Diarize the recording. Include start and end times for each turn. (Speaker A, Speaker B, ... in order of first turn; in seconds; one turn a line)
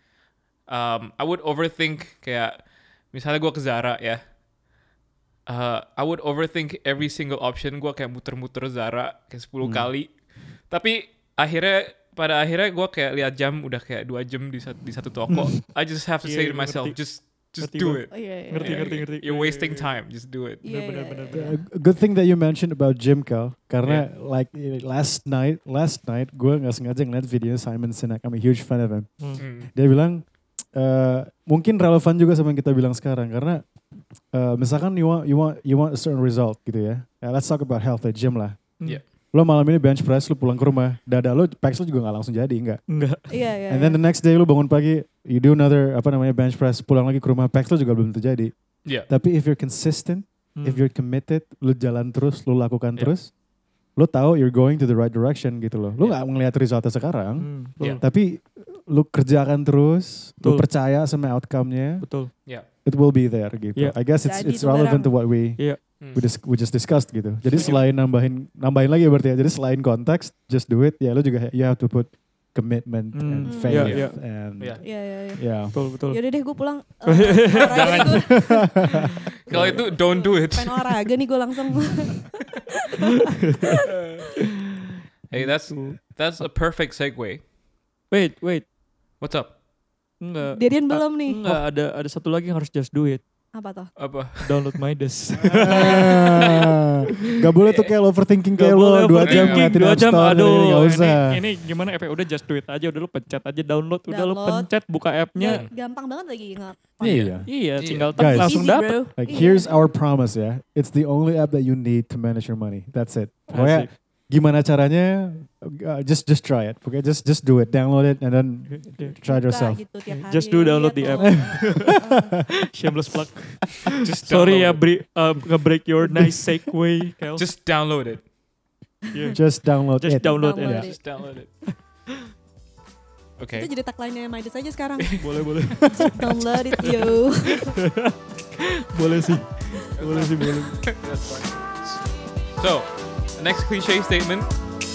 Speaker A: 0.7-4.2
Speaker A: 5.5-20.6
Speaker B: 9.6-9.9
Speaker C: 15.3-15.6
Speaker C: 16.2-19.9
Speaker D: 18.1-18.9
Speaker D: 20.6-21.5
Speaker C: 20.7-21.6
Speaker B: 21.3-33.6
Speaker A: 29.4-29.7
Speaker B: 34.3-38.7
Speaker B: 39.3-42.8
Speaker C: 42.9-43.3
Speaker D: 43.3-44.0
Speaker B: 43.7-48.5
Speaker B: 49.1-53.3
Speaker C: 50.6-50.9
Speaker B: 54.0-62.0
Speaker C: 57.4-58.0
Speaker C: 60.4-60.7
Speaker C: 62.0-62.3
Speaker B: 62.8-75.8
Speaker D: 64.2-65.1
Speaker A: 66.0-66.2
Speaker C: 73.1-74.2
Speaker D: 73.4-74.0
Speaker D: 74.8-75.4
Speaker C: 75.7-76.2
Speaker D: 76.1-78.8
Speaker C: 77.1-78.3
Speaker A: 77.5-78.3
Speaker B: 78.2-78.7
Speaker D: 79.5-83.1
Speaker A: 79.5-81.0
Speaker C: 79.5-79.8
Speaker C: 83.5-83.8
Speaker A: 83.8-84.2
Speaker A: 85.3-87.5
Speaker C: 85.3-86.0
Speaker C: 88.1-88.7
Speaker A: 89.2-89.5
Speaker C: 90.2-93.2
Speaker D: 90.5-91.4
Speaker D: 93.5-93.9
Speaker A: 94.0-94.5
Speaker C: 94.4-96.5
Speaker B: 95.4-101.4
Speaker D: 95.6-96.1
Speaker A: 97.6-97.9
Speaker C: 98.6-105.6
Speaker A: 99.2-99.7
Speaker D: 104.1-104.7
Speaker D: 105.3-107.0
Speaker B: 107.0-107.5
Speaker A: 107.0-108.2
Speaker C: 107.4-109.0
Speaker B: 108.1-119.8
Speaker D: 108.2-109.9
Speaker C: 113.5-113.9
Speaker C: 118.7-119.1
Speaker D: 119.2-122.3
Speaker C: 120.1-122.0
Speaker B: 121.2-122.0
Speaker C: 122.7-127.4
Speaker A: 123.9-124.8
Speaker A: 127.4-128.2
Speaker C: 129.1-131.0
Speaker B: 129.3-130.9
Speaker D: 130.2-131.3
Speaker A: 130.9-131.5
Speaker A: 133.4-133.7
Speaker D: 133.6-135.1
Speaker C: 135.2-136.1
Speaker D: 135.8-137.7
Speaker C: 136.8-140.8
Speaker A: 140.0-142.0
Speaker A: 142.6-144.5